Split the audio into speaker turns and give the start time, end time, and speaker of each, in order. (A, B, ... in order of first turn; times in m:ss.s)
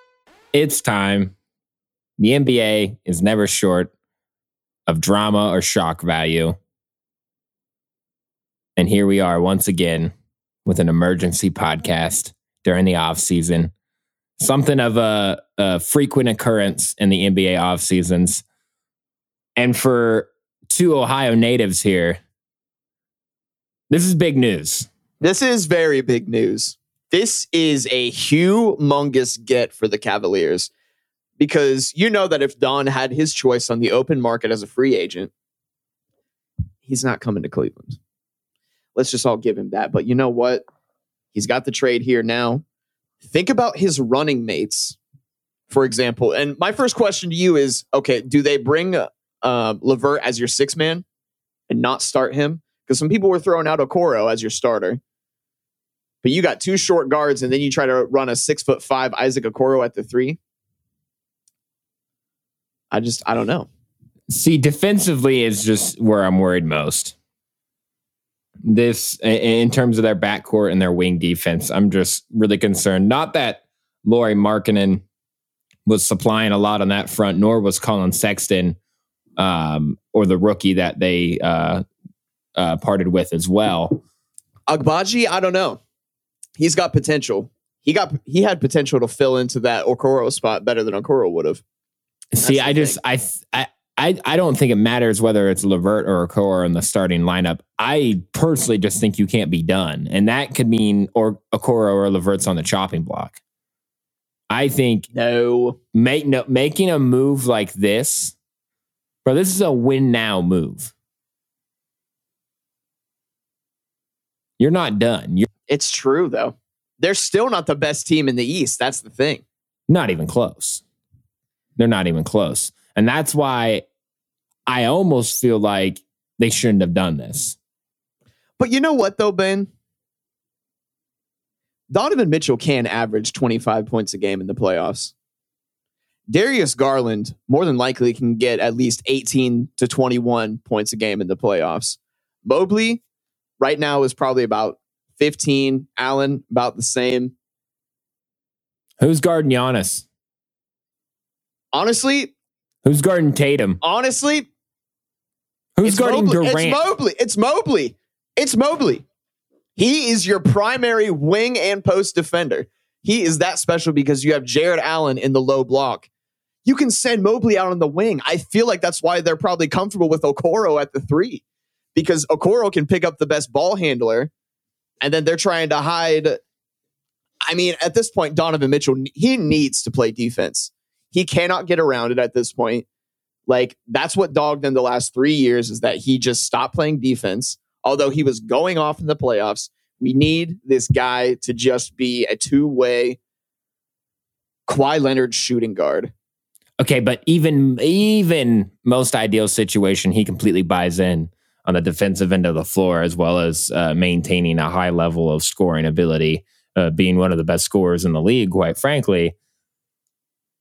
0:00.5-0:01.3 A
0:02.2-0:03.9 A
0:04.9-0:06.6 A
0:08.8-0:10.1 A
0:10.6-0:13.7 A
0:14.4-0:18.4 A
0:19.6-0:22.2 A
0:23.9-0:24.9 A
0:25.2-0:30.7 B
0:31.4-0:35.3 B
0:36.8-0:38.0 B
0:38.9-0:40.6 B
0:41.3-0:42.6 B
0:43.2-0:45.0 B
0:45.7-0:51.0 B
0:51.7-0:55.0 B
0:56.2-1:00.4 B
1:02.9-1:03.7 B
1:04.3-1:07.1 A
1:08.6-1:15.0 A
1:15.8-1:18.8 A
1:19.4-1:21.8 A
1:22.6-1:24.0 A
1:24.7-1:25.8 B
1:26.6-1:31.6 B
1:32.3-1:43.4 A
1:32.4-1:33.0 B
1:44.5-1:45.1 A
1:45.1-1:45.8 B
1:45.9-1:48.4 A
1:49.2-1:50.9 A
1:54.6-1:55.5 A
1:55.7-1:59.4 B
1:59.9-2:00.8 A
2:01.8-2:03.8 A
2:04.7-2:07.6 A
2:08.6-2:09.7 B
2:11.9-2:15.1 B
2:16.3-2:23.0 B
2:23.6-2:27.3 B
2:29.0-2:30.1 A
2:31.7-2:32.3 B
2:32.8-2:33.8 A
2:33.8-2:34.5 B
2:35.8-2:36.8 A
2:35.8-2:39.0 B
2:39.8-2:46.1 B
2:46.6-2:51.4 B
2:51.9-2:54.3 B
2:55.0-2:56.4 B
2:57.5-3:02.8 B
3:03.5-3:13.2 B
3:14.7-3:16.1 B
3:16.8-3:29.3 A